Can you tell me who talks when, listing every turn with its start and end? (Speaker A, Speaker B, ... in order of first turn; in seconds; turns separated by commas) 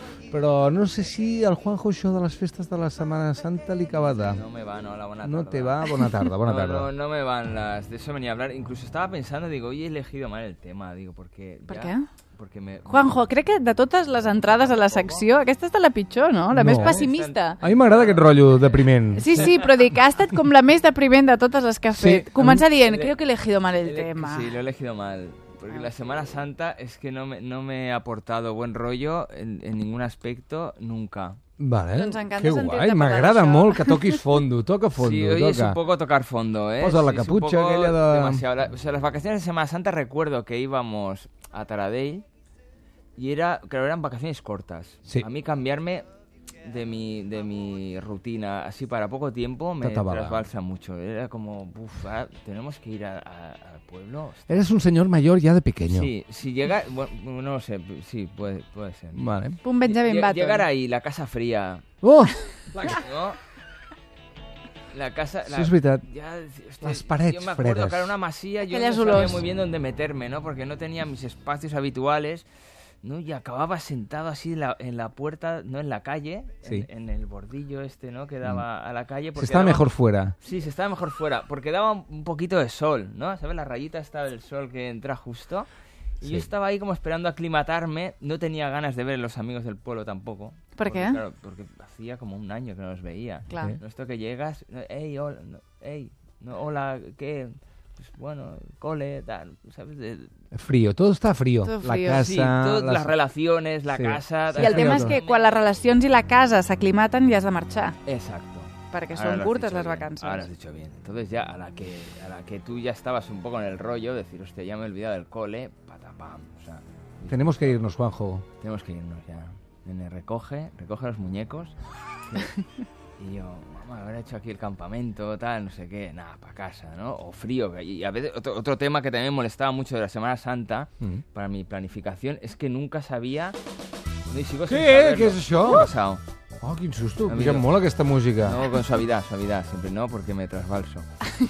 Speaker A: 0.3-4.4, Speaker B: 4.2-15.3, Speaker A: 5.2-6.9, Speaker C: 11.7-12.0, Speaker C: 12.9-17.6, Speaker A: 16.5-17.1, Speaker B: 16.6-19.9, Speaker A: 17.6-19.5, Speaker C: 19.1-24.6, Speaker A: 21.9-22.6, Speaker B: 22.8-23.1, Speaker B: 23.8-31.4, Speaker A: 31.6-35.8, Speaker C: 31.9-34.2, Speaker B: 35.0-42.2, Speaker A: 36.8-38.5, Speaker B: 43.1-46.0, Speaker B: 46.6-54.7, Speaker A: 49.8-50.4, Speaker A: 54.5-56.1, Speaker B: 55.9-59.2, Speaker A: 59.1-59.6, Speaker C: 59.6-60.6, Speaker B: 59.8-61.8, Speaker A: 62.0-63.0, Speaker B: 62.8-63.4, Speaker B: 64.9-72.5, Speaker A: 65.5-66.0, Speaker A: 66.8-68.1, Speaker C: 68.6-69.4, Speaker B: 73.0-79.9, Speaker A: 79.3-80.3, Speaker B: 80.4-85.7, Speaker B: 86.2-100.3, Speaker C: 90.8-91.2, Speaker C: 93.5-93.8, Speaker A: 100.5-103.1, Speaker C: 101.6-102.2, Speaker B: 102.0-105.5, Speaker A: 103.9-105.2, Speaker C: 104.6-108.0, Speaker B: 108.0-117.8, Speaker C: 108.9-110.5, Speaker A: 117.2-118.4, Speaker B: 118.6-121.8, Speaker B: 122.3-122.5, Speaker B: 123.2-133.6, Speaker B: 134.3-136.2, Speaker A: 134.7-135.9, Speaker A: 136.6-138.6, Speaker B: 137.2-137.7, Speaker B: 138.4-141.1